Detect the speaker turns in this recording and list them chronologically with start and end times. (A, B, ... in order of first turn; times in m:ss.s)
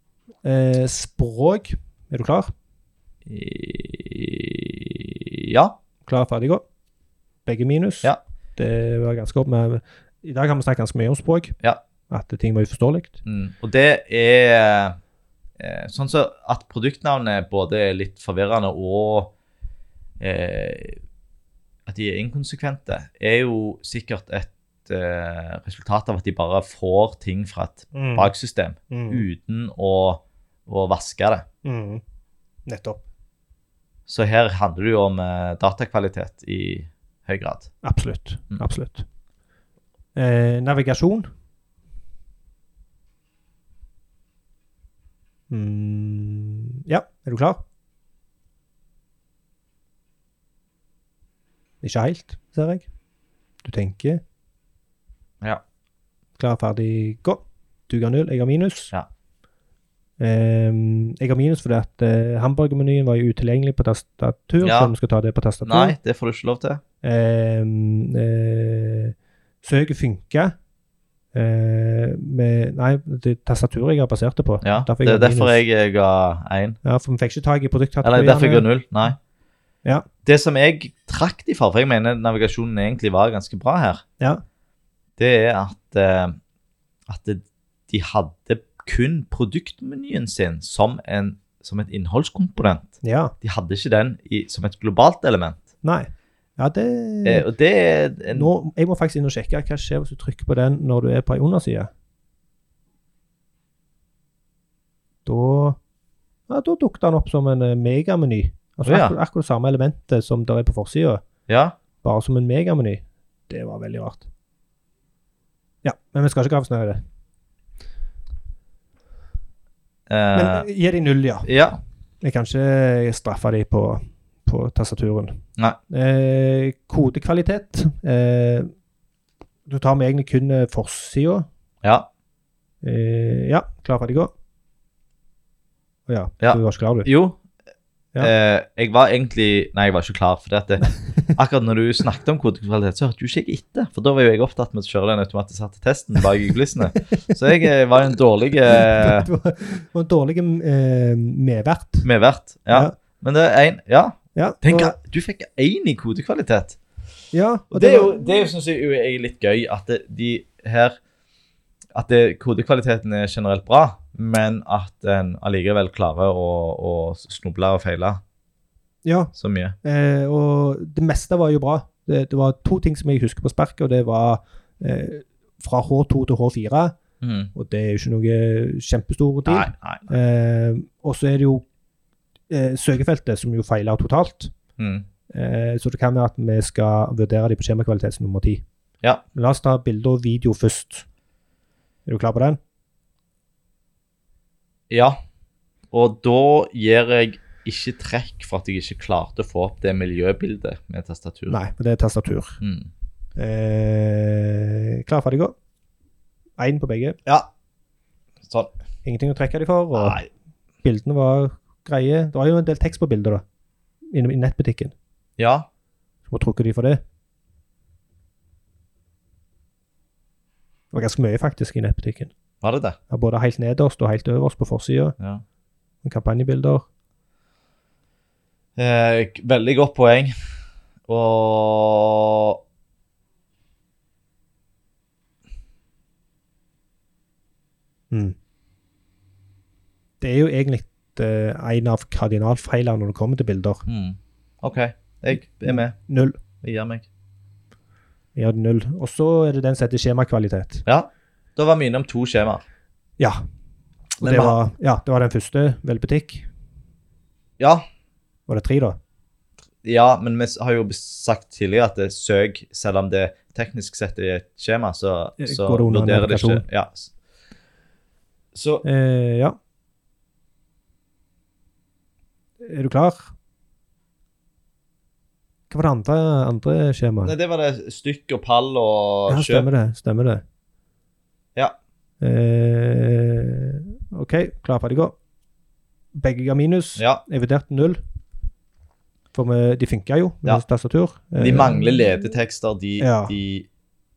0:00.4-0:02.5 A
0:03.2-0:05.8 B
0:06.0-0:06.6 A
0:07.4-0:11.5 A
0:12.1-0:13.2 A
0:13.2-0:15.0 B
0:15.6-0:19.3 B
0:20.2-0:21.0 B
0:21.8-0:31.4 B
0:27.9-0:28.3 A
0:28.9-0:29.2 A
0:31.6-0:32.0 A
0:32.7-0:33.0 A
0:34.1-0:37.7 B
0:37.8-0:39.0 A
0:40.1-0:41.3 A
0:45.5-0:47.6 A
0:51.8-0:52.9 A
0:53.6-0:54.2 A
0:56.4-0:58.9 A
1:00.2-1:06.0 A
1:04.6-1:04.9 B
1:05.6-1:06.8 B
1:07.0-1:10.5 A
1:11.3-1:15.6 A
1:14.6-1:16.8 B
1:16.8-1:18.6 A
1:18.0-1:19.2 B
1:20.2-1:24.0 B
1:25.2-1:26.4 B
1:27.1-1:35.6 B
1:33.0-1:33.3 A
1:35.8-1:37.4 A
1:37.2-1:38.5 B
1:38.3-1:41.9 A
1:45.2-1:45.8 A
1:46.5-1:51.2 A
1:48.8-1:49.1 B
1:51.5-1:51.8 B
1:52.0-1:54.3 A
1:55.8-1:57.0 A
2:00.1-2:00.7 B
2:00.3-2:01.5 A
2:01.4-2:01.8 B
2:02.2-2:08.7 A
2:09.7-2:11.5 A
2:11.8-2:12.1 B
2:12.8-2:14.3 A
2:16.1-2:17.1 A
2:16.4-2:17.4 B
2:18.2-2:29.3 B
2:27.2-2:27.7 A
2:28.7-2:32.1 A
2:32.0-2:36.8 B
2:34.3-2:35.0 A
2:37.3-2:38.3 A
2:37.7-2:41.0 B
2:41.9-2:48.2 B
2:49.0-2:57.0 A
2:49.3-2:49.8 B
2:57.2-2:57.5 B
2:57.5-3:01.6 A
2:59.4-3:00.0 B
3:02.5-3:04.5 A
3:04.8-3:05.0 B
3:05.3-3:08.6 A
3:09.3-3:11.0 A
3:12.1-3:12.6 A
3:14.9-3:15.2 B
3:15.9-3:21.6 B
3:21.5-3:22.6 A
3:22.6-3:22.9 B
3:23.4-3:25.5 A
3:26.6-3:27.2 A
3:28.4-3:28.7 B
3:29.0-3:30.2 A
3:30.0-3:30.3 B
3:30.8-3:33.4 A
3:34.1-3:34.9 A
3:35.4-3:35.7 B
3:36.3-3:37.0 A
3:40.9-3:42.3 A
3:42.6-3:43.0 B
3:43.1-3:45.1 A
3:45.2-3:45.4 B
3:46.0-3:46.8 A
3:48.8-3:50.3 B
3:51.1-3:52.6 B
4:00.2-4:03.8 A
4:03.8-4:06.0 B
4:05.6-4:06.4 A
4:06.6-4:07.0 B
4:08.4-4:10.8 A
4:10.8-4:12.6 B
4:14.2-4:16.5 A
4:14.2-4:14.6 B
4:17.6-4:17.8 B
4:18.5-4:19.0 A
4:19.8-4:27.1 B
4:25.4-4:26.6 A
4:28.5-4:28.8 B
4:28.8-4:29.6 A
4:32.6-4:33.3 A
4:35.7-4:37.3 A
4:37.2-4:39.7 B
4:39.3-4:40.4 A
4:42.2-4:45.1 A
4:46.1-4:48.0 A
4:47.0-4:47.2 B
4:49.3-4:51.8 A
4:51.4-4:53.7 B
4:53.0-4:53.3 A